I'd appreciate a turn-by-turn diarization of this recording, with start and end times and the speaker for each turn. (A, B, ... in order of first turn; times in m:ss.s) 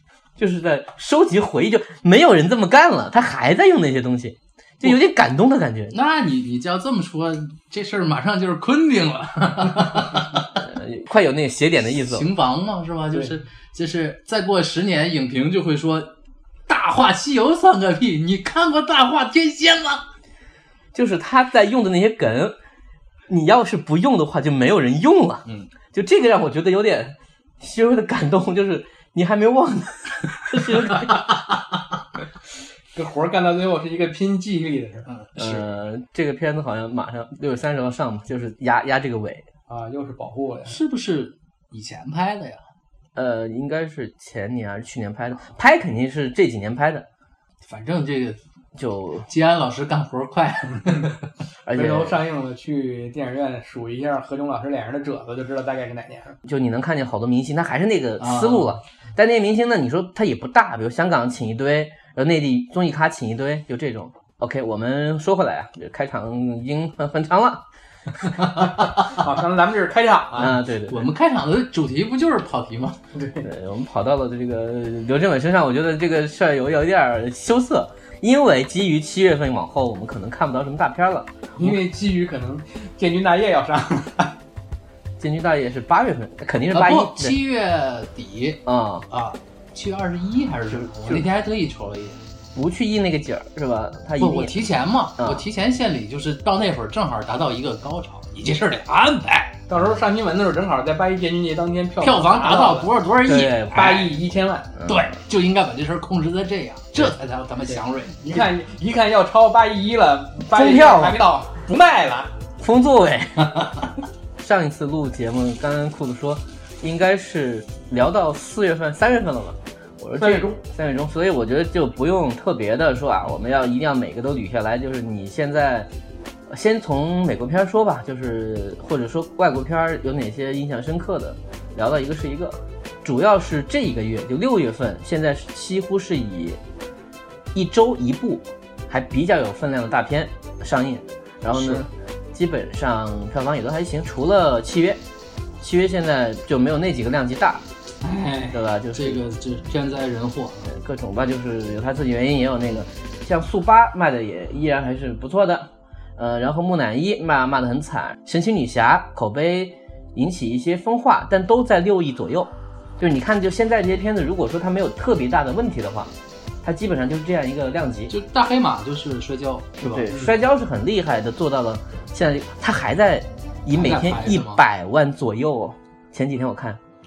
0:00.4-0:05.9 A
0:05.9-0:10.6 B
0:10.6-0:12.3 A
0:11.9-0:16.1 B
0:16.7-0:20.0 B
0:20.9-0:22.6 A
0:23.3-0:31.3 A
0:32.9-0:35.1 C
0:35.1-0:35.6 B
0:35.4-0:39.5 A
0:39.7-0:40.8 C
0:40.7-0:42.6 B
0:43.1-0:47.1 A
0:47.6-0:48.4 B
0:48.8-0:49.3 A
0:49.3-0:51.2 B
0:51.7-0:52.2 A
0:51.7-0:56.4 C
0:56.4-1:07.6 A
0:58.2-0:58.8 B
1:08.4-1:08.9 B
1:09.1-1:10.6 C
1:10.4-1:11.0 A
1:10.8-1:13.0 B
1:13.1-1:13.5 C
1:13.4-1:21.3 A
1:21.6-1:24.3 C
1:25.2-1:27.4 A
1:26.7-1:32.2 B
1:28.6-1:29.1 A
1:30.7-1:31.3 A
1:32.6-1:34.6 A
1:34.2-1:39.6 B
1:35.2-1:35.4 A
1:39.7-1:42.9 C
1:42.0-1:44.1 B
1:43.2-1:43.9 A
1:43.7-1:44.8 C
1:44.9-1:48.5 B
1:47.7-1:52.3 C
1:50.5-1:51.2 A
1:52.6-1:53.7 A
1:53.4-1:53.8 B
1:54.4-2:05.9 A
2:00.2-2:00.6 C
2:06.5-2:16.6 A
2:17.5-2:25.0 A
2:21.5-2:21.9 B
2:25.6-2:27.6 A
2:28.0-2:30.7 B
2:28.5-2:29.2 A
2:30.7-2:48.1 A
2:48.1-2:50.1 B
2:49.8-2:56.8 A
2:50.1-2:50.4 C
2:53.7-2:54.6 B